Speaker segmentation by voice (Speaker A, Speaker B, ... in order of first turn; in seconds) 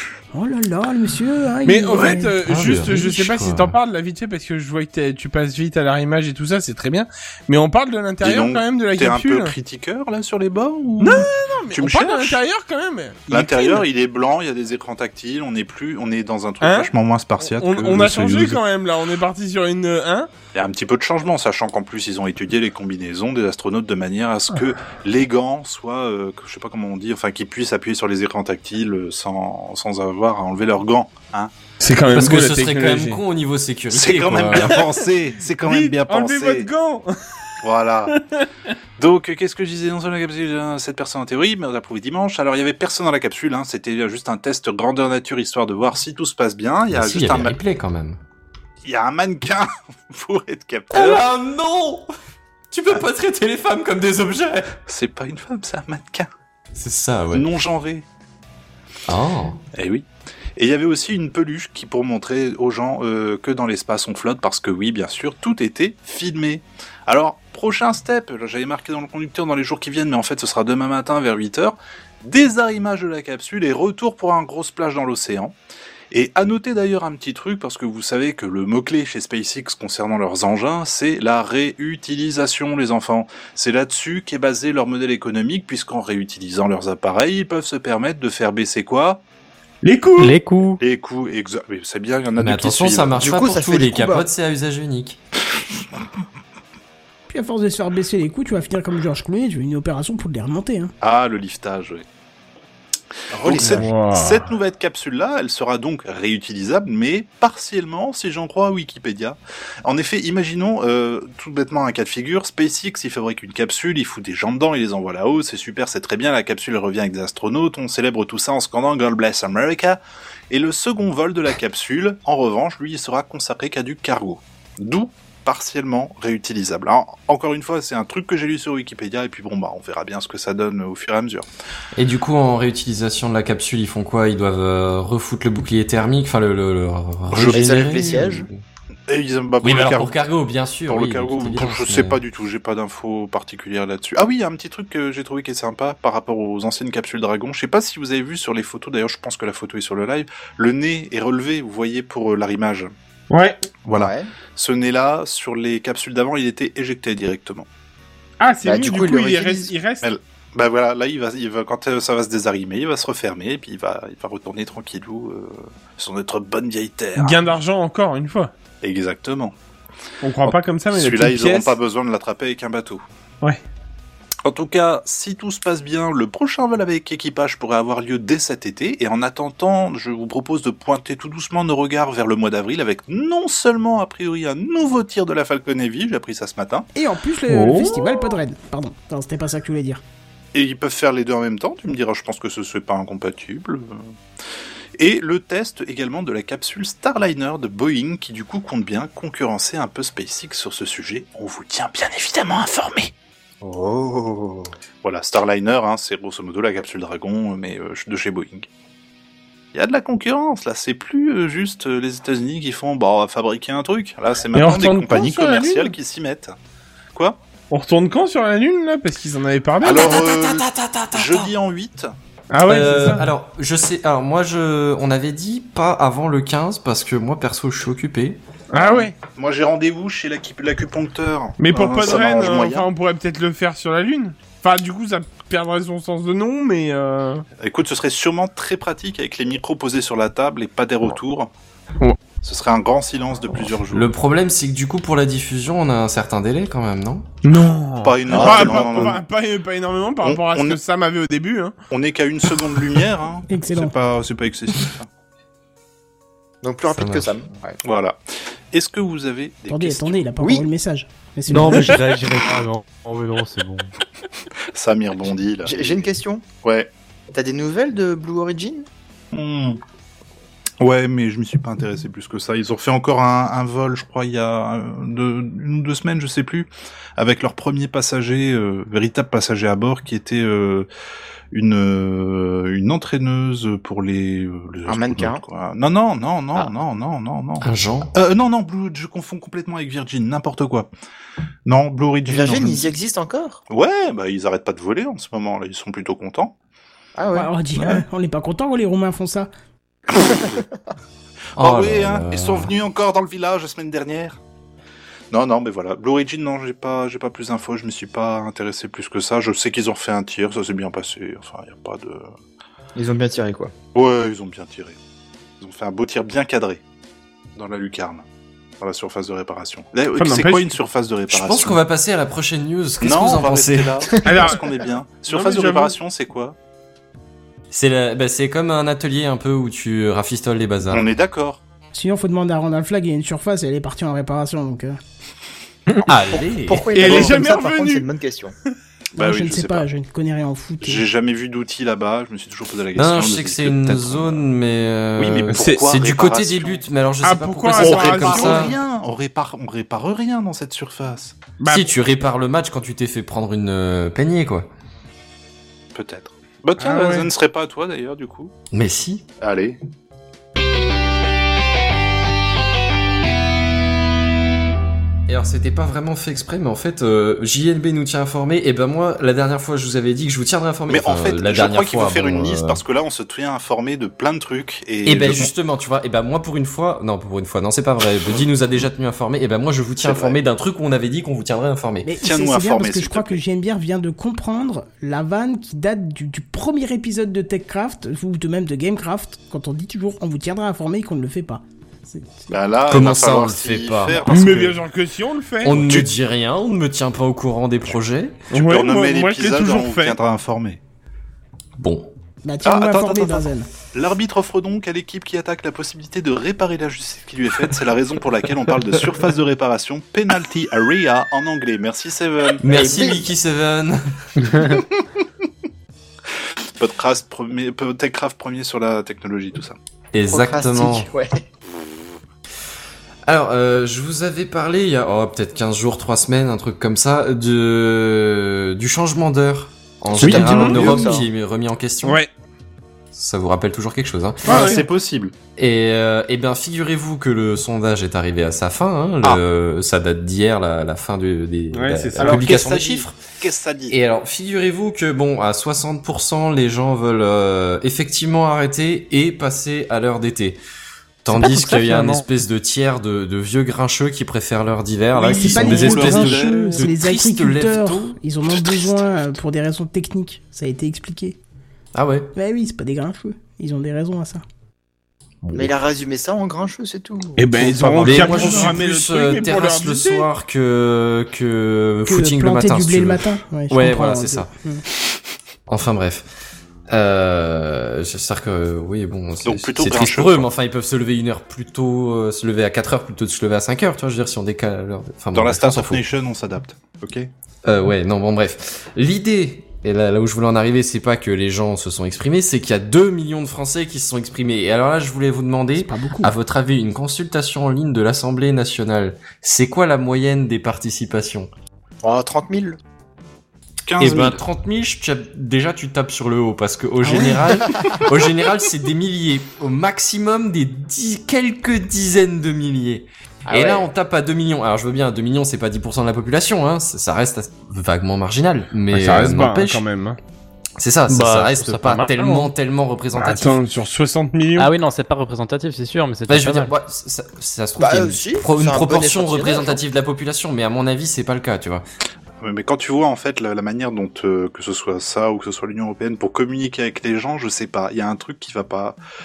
Speaker A: 0.3-2.3, 97.3-100.9, 186.9-190.0, 253.5-253.9, 259.7-262.0, 297.3-299.5, 331.9-335.0, 339.1-341.1, 382.0-392.5, 402.4-403.7, 455.3-461.4, 462.3-464.4, 472.1-474.8, 495.8-496.3
Speaker B: 1.6-9.5, 11.0-13.8, 16.6-20.3, 31.8-33.2, 34.5-34.9, 35.6-37.1, 38.1-38.5, 89.8-90.4, 103.6-104.5, 153.3-153.6, 158.4-160.1, 167.2-168.5, 170.2-171.8, 187.5-188.0, 214.5-215.9, 217.7-220.2, 222.5-223.2, 228.7-229.1, 231.6-237.4, 247.4-251.7, 320.1-320.7, 324.2-324.7, 325.3-325.9, 336.9-338.1, 345.5-345.8, 347.2-348.7, 351.6-351.9, 356.8-357.3, 394.3-395.9, 398.5-400.2, 430.4-430.9, 432.0-432.3, 434.4-434.8, 441.7-442.5, 467.4-470.3, 518.9-520.2, 523.1-524.7
Speaker C: 2.4-3.8, 32.1-34.9, 46.9-48.2, 50.9-52.1, 52.7-54.8, 56.7-57.5, 59.1-59.6, 92.4-95.2, 131.9-138.6, 139.6-142.2, 219.8-221.5, 222.6-228.4, 243.9-247.3, 256.9-257.3, 287.6-288.1, 301.6-302.7, 321.3-324.2, 327.7-331.1, 336.0-336.9, 342.9-348.8, 351.7-354.7, 358.7-359.2, 365.3-372.8, 375.0-382.1, 392.9-394.6, 395.6-398.4, 401.8-402.1, 412.6-414.1, 420.1-421.1, 423.2-432.2, 433.1-434.8, 435.6-443.2, 443.9-450.6, 451.2-459.0, 461.9-462.3, 468.0-474.5, 475.7-476.3, 476.9-486.0, 487.6-501.5, 504.0-519.8, 520.8-523.6, 526.3-531.8
Speaker D: 8.2-12.4, 13.3-18.6, 20.5-31.5, 33.9-36.7, 37.6-38.1, 39.0-47.5, 48.8-51.2, 54.9-56.3, 57.3-58.0, 59.7-60.0, 60.5-75.5, 76.1-89.2, 90.8-93.2, 101.0-102.0, 103.3-131.5, 137.3-137.7, 139.1-140.2, 140.9-152.9, 153.8-157.7, 160.0-167.4, 168.8-169.5, 170.4-173.0, 174.4-186.9, 190.5-194.0, 195.0-203.1, 205.0-208.7, 209.7-216.5, 219.8-222.1, 228.7-232.9, 237.6-241.5, 242.4-244.1, 248.0-249.2, 250.2-250.8, 251.9-255.1, 257.8-258.2, 258.7-260.2, 264.7-265.9, 266.6-266.9, 269.3-269.8, 270.8-280.9, 281.5-290.9, 291.6-292.9, 293.7-296.5, 300.2-300.5, 301.6-304.4, 305.3-312.3, 313.9-315.0, 315.6-316.8, 317.6-318.2, 318.8-321.8, 323.0-326.6, 330.9-331.6, 339.1-339.9, 340.8-344.4, 345.2-346.8, 347.7-351.4, 355.9-358.5, 359.4-359.8, 370.9-375.5, 380.0-380.4, 382.2-383.4, 392.5-394.8, 395.8-396.1, 398.6-400.8, 402.6-412.6, 416.8-419.8, 434.4-435.3, 442.2-443.9, 455.1-456.9, 467.9-468.7, 479.4-480.5, 485.3-487.3, 503.9-504.4, 532.4-539.0
Speaker E: 90.2-90.8, 261.5-263.9, 414.4-414.8, 430.2-430.7, 451.3-452.2, 521.1-522.5, 524.6-526.7
Speaker F: 93.2-94.3, 103.4-103.8, 137.4-138.5, 153.9-154.3, 158.6-159.7, 203.6-204.6, 248.3-249.2, 256.6-257.8, 260.4-260.6, 265.6-266.4, 267.3-268.9, 284.9-285.4, 292.2-293.6, 297.1-298.0, 300.1-300.7, 312.9-313.7, 336.3-338.5, 412.7-413.2, 420.3-421.4, 430.1-431.3, 465.5-468.6, 502.0-502.8, 507.1-508.0, 513.5-513.9, 527.8-529.8